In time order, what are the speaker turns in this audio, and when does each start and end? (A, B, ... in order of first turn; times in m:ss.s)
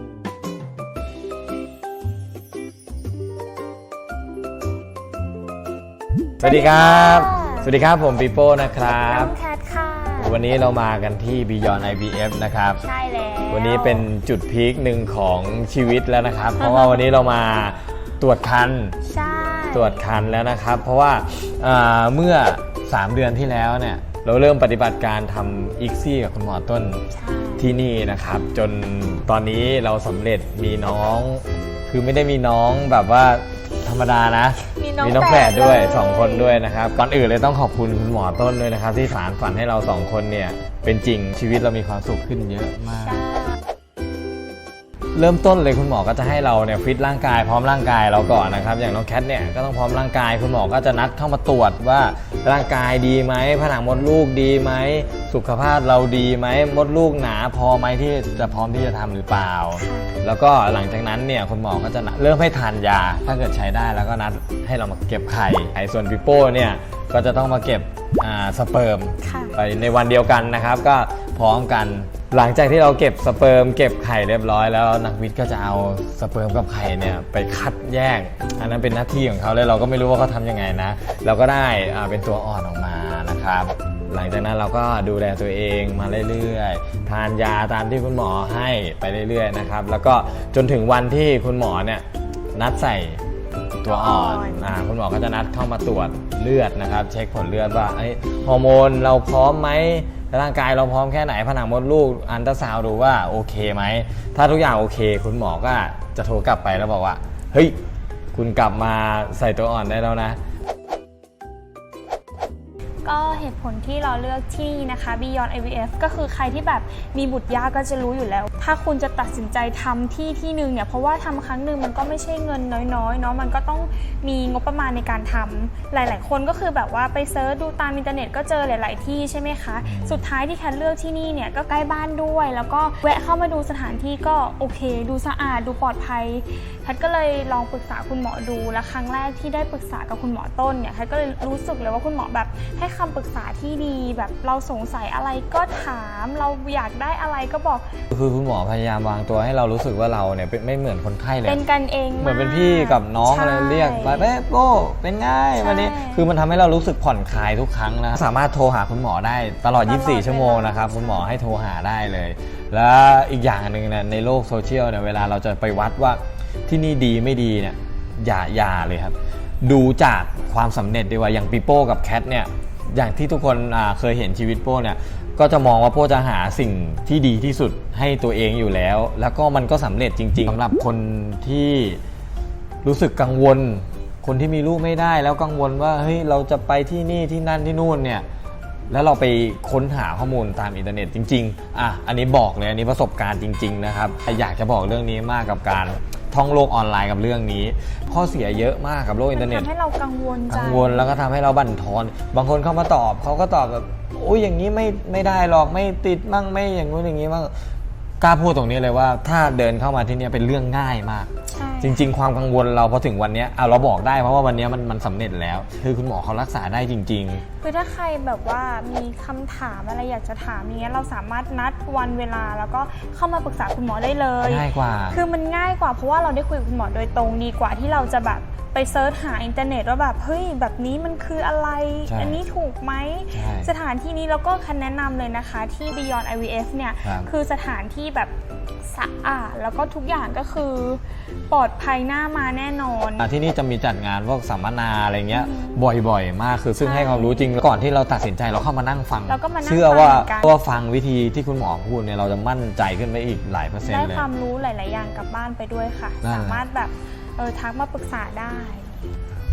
0:06.4-0:09.4 A
0:06.4-0:07.7 B
0:09.1-0:10.5 B
0:10.2-0:12.8 A
0:12.8-0:14.1 B
0:13.5-0:19.0 A
0:16.6-0:17.0 B
0:19.0-0:20.0 B
0:19.7-0:27.0 A
0:27.1-0:27.7 B
0:27.6-0:43.2 A
0:34.8-0:36.6 B
0:43.0-0:43.6 B
0:45.2-1:33.2 A
0:59.8-1:00.1 B
1:09.2-1:09.6 B
1:33.8-1:47.8 A
1:33.9-1:34.8 B
1:48.3-1:50.4 A
1:53.0-2:27.9 B
2:09.8-2:10.2 A
2:28.1-2:31.6 A
2:31.4-2:34.3 B
2:32.2-3:02.0 A
2:35.6-2:36.3 B
2:39.8-2:41.4 B
3:02.8-3:08.2 A
3:08.9-3:19.7 A
3:19.3-3:21.2 B
3:20.5-3:27.5 A
3:28.2-3:31.3 A
3:31.5-3:32.1 B
3:31.8-3:37.4 A
3:37.6-3:58.3 B
3:44.4-3:45.2 A
3:52.1-3:52.4 A
3:53.3-3:53.7 A
3:57.0-3:57.3 A
3:58.8-4:03.3 B
4:03.2-4:14.3 A
4:05.3-4:05.8 B
4:06.8-4:07.6 B
4:09.3-4:10.5 B
4:13.8-4:19.0 B
4:16.2-4:16.6 A